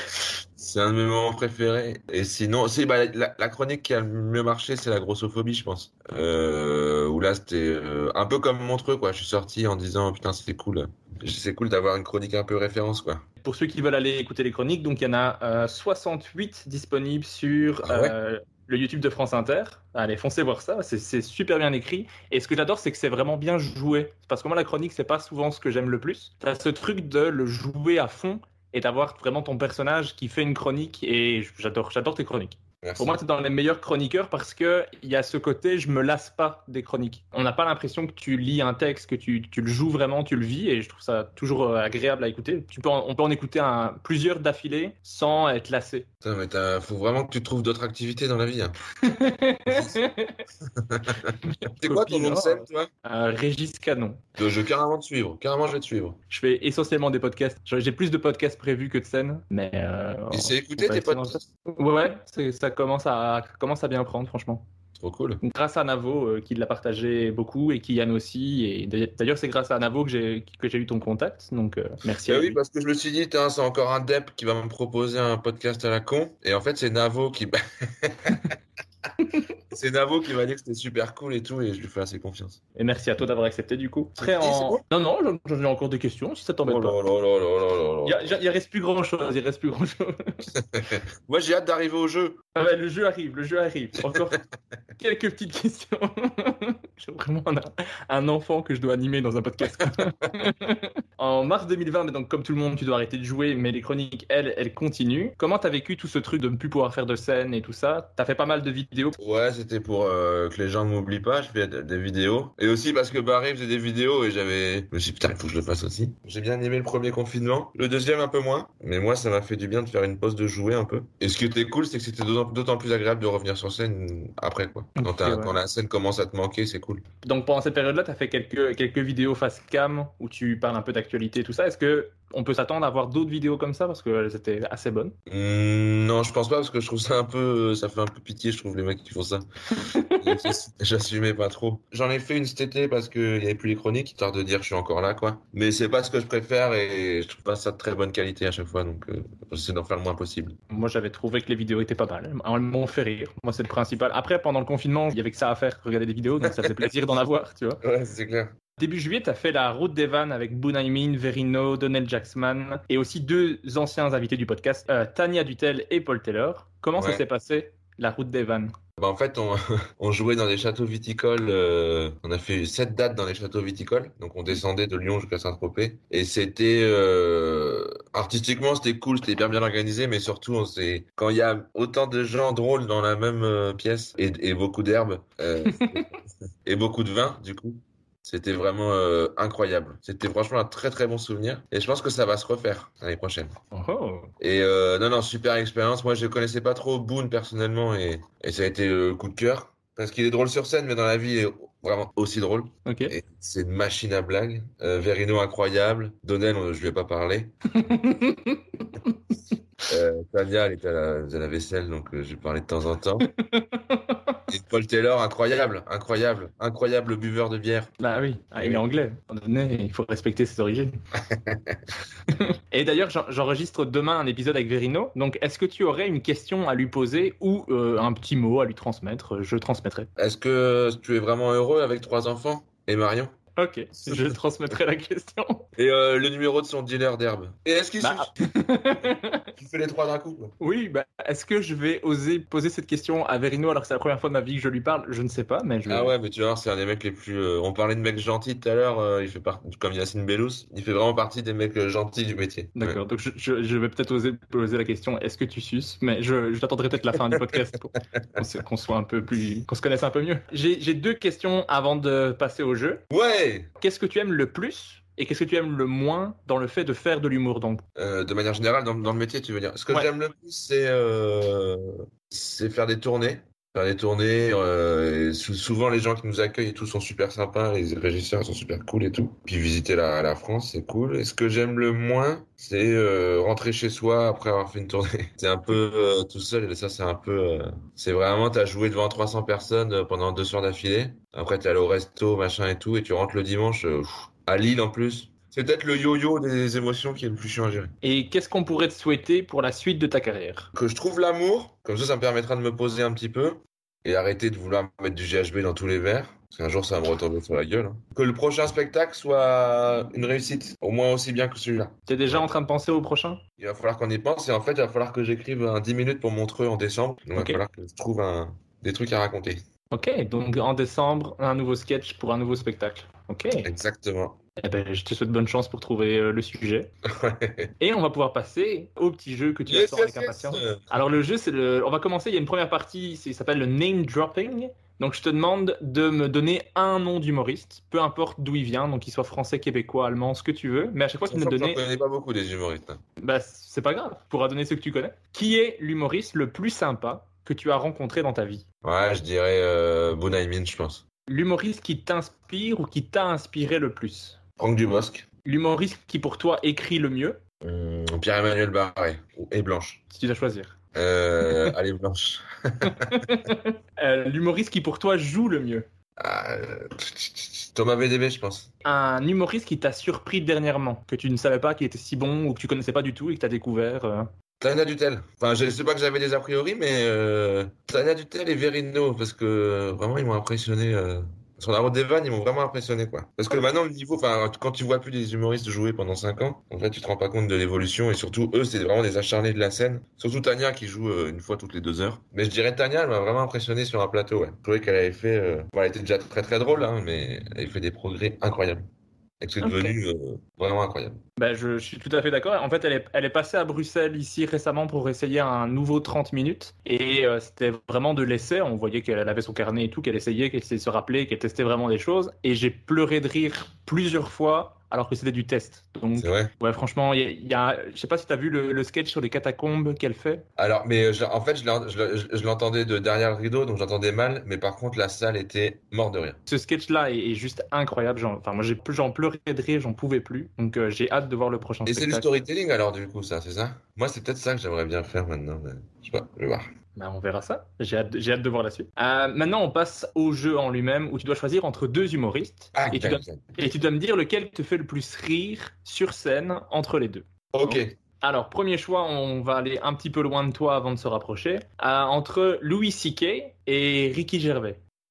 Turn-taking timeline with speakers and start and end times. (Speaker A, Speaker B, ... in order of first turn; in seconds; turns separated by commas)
Speaker A: 0.6-13.2, Speaker B: 13.4-46.1, Speaker A: 17.8-18.1, Speaker A: 32.8-33.2, Speaker A: 46.2-48.8, Speaker B: 49.0-50.4, Speaker A: 49.7-50.0, Speaker A: 50.8-52.9, Speaker B: 51.5-54.2, Speaker A: 54.4-56.2, Speaker B: 56.3-64.6, Speaker A: 60.3-61.5, Speaker A: 65.0-65.4, Speaker B: 65.4-72.6, Speaker A: 72.2-78.5, Speaker A: 79.7-82.6, Speaker B: 82.8-87.0, Speaker A: 84.2-84.8, Speaker A: 86.6-88.4, Speaker B: 88.0-90.4, Speaker A: 90.6-92.4, Speaker B: 92.5-94.4, Speaker A: 94.0-94.4, Speaker B: 95.0-109.2, Speaker A: 109.2-127.0, Speaker B: 125.0-125.6, Speaker B: 127.2-135.1, Speaker A: 135.3-139.4, Speaker B: 139.7-140.5, Speaker A: 140.2-150.6, Speaker B: 150.7-157.8, Speaker A: 156.4-156.9, Speaker A: 157.8-158.5, Speaker B: 158.8-168.7, Speaker A: 166.9-167.2, Speaker A: 169.0-193.6, Speaker B: 185.7-186.0, Speaker B: 193.7-194.3, Speaker A: 194.4-207.5, Speaker B: 202.8-203.2, Speaker B: 207.7-209.2, Speaker A: 209.9-213.3, Speaker B: 213.6-214.4, Speaker A: 214.5-217.9, Speaker B: 218.0-220.9, Speaker A: 218.6-218.8, Speaker A: 221.3-221.8, Speaker B: 222.4-230.1, Speaker A: 230.2-233.3, Speaker B: 233.6-235.6, Speaker A: 234.1-234.3, Speaker A: 235.8-238.3, Speaker B: 238.0-239.4, Speaker A: 239.6-240.5, Speaker B: 240.6-246.1, Speaker A: 245.9-253.0, Speaker B: 252.8-263.0, Speaker A: 257.3-258.2, Speaker A: 263.1-263.7, Speaker B: 263.8-267.8, Speaker A: 267.9-297.9, Speaker B: 298.0-300.7, Speaker A: 300.7-312.5, Speaker B: 312.1-313.4, Speaker A: 313.6-319.6, Speaker B: 319.9-323.7, Speaker A: 323.6-324.4, Speaker B: 324.6-326.9, Speaker A: 327.1-327.7, Speaker B: 327.8-341.8, Speaker A: 329.7-330.9, Speaker A: 341.3-343.0, Speaker B: 343.2-348.6, Speaker A: 348.8-351.0, Speaker B: 351.3-354.4, Speaker A: 354.6-355.2, Speaker B: 355.4-357.4, Speaker A: 357.6-360.0, Speaker B: 360.1-360.8, Speaker A: 360.9-363.2, Speaker B: 361.5-361.7, Speaker B: 362.9-365.9, Speaker A: 366.2-368.7, Speaker B: 368.8-374.3, Speaker A: 374.6-398.8, Speaker A: 399.4-401.2, Speaker B: 399.6-399.9, Speaker B: 401.4-420.4, Speaker A: 416.2-416.5, Speaker A: 420.6-426.4, Speaker B: 426.5-432.4, Speaker A: 431.9-436.7, Speaker B: 436.9-454.8, Speaker A: 442.7-443.5, Speaker A: 447.5-447.9